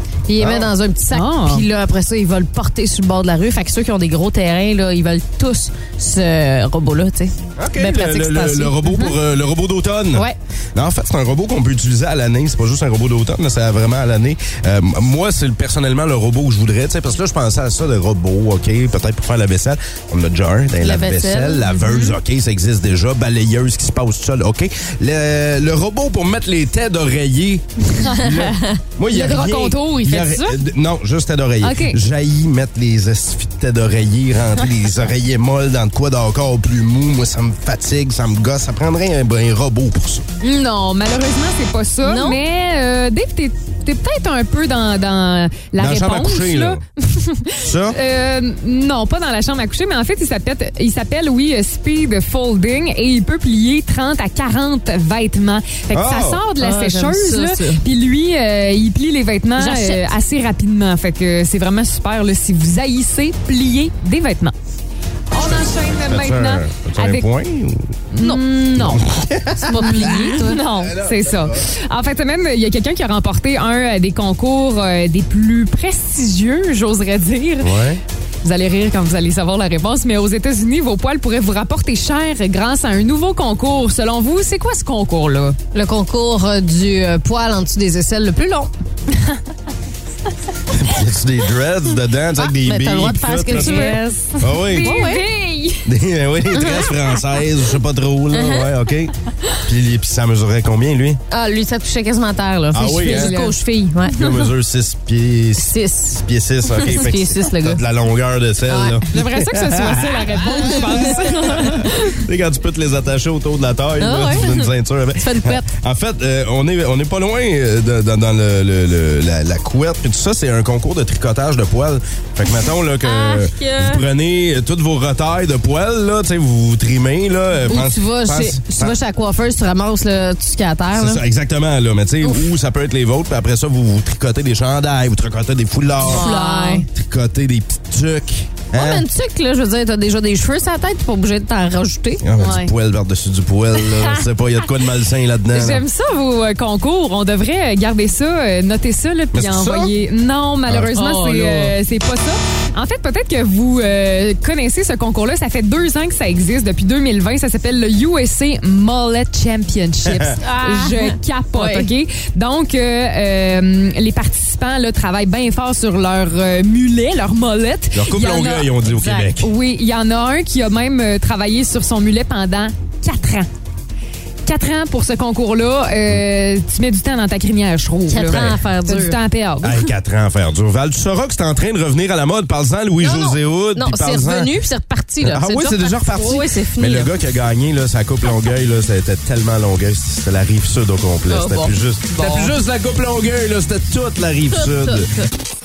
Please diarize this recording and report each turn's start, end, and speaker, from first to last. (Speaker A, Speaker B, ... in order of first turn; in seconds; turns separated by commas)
Speaker A: 0.3-8.8, Speaker B: 0.4-0.7, Speaker C: 1.1-1.6, Speaker B: 7.6-40.2, Speaker A: 20.8-21.7, Speaker C: 21.8-22.1, Speaker C: 29.1-30.6, Speaker C: 31.6-32.0, Speaker C: 40.4-64.5, Speaker A: 42.0-42.4, Speaker B: 45.8-46.8, Speaker B: 47.6-48.0, Speaker B: 55.9-56.4, Speaker A: 56.6-57.8, Speaker A: 59.6-60.0, Speaker C: 65.3-67.3, Speaker B: 65.4-68.0, Speaker C: 68.1-69.0, Speaker B: 68.8-71.6, Speaker A: 69.6-70.6, Speaker C: 69.8-77.7, Speaker B: 77.6-78.0, Speaker C: 78.4-85.6, Speaker A: 85.7-88.7, Speaker B: 90.7-95.0, Speaker A: 92.6-94.2, Speaker C: 93.5-95.9, Speaker A: 94.8-95.3, Speaker B: 95.9-99.1, Speaker A: 98.3-98.7, Speaker B: 99.7-101.2, Speaker A: 101.3-104.2, Speaker B: 102.7-103.3, Speaker C: 103.0-103.6, Speaker B: 104.1-129.0, Speaker A: 105.6-107.8, Speaker A: 108.7-109.0, Speaker C: 109.1-112.2, Speaker A: 114.0-114.7, Speaker A: 115.2-115.7, Speaker A: 123.0-124.0, Speaker A: 127.7-131.2, Speaker B: 130.9-136.3, Speaker A: 136.1-136.9, Speaker C: 136.1-136.9, Speaker B: 136.9-139.1, Speaker A: 138.7-142.2, Speaker B: 142.2-145.8, Speaker C: 142.4-142.7, Speaker C: 145.5-168.7, Speaker B: 149.3-149.9, Speaker A: 150.9-151.8, Speaker B: 160.1-160.3, Speaker A: 160.4-161.9, Speaker B: 167.9-169.5, Speaker A: 169.0-169.2, Speaker C: 169.3-173.5, Speaker C: 174.5-179.8, Speaker A: 178.1-179.2, Speaker B: 179.6-184.5, Speaker A: 183.0-187.1, Speaker B: 185.2-195.1, Speaker A: 191.3-192.4, Speaker A: 194.5-195.3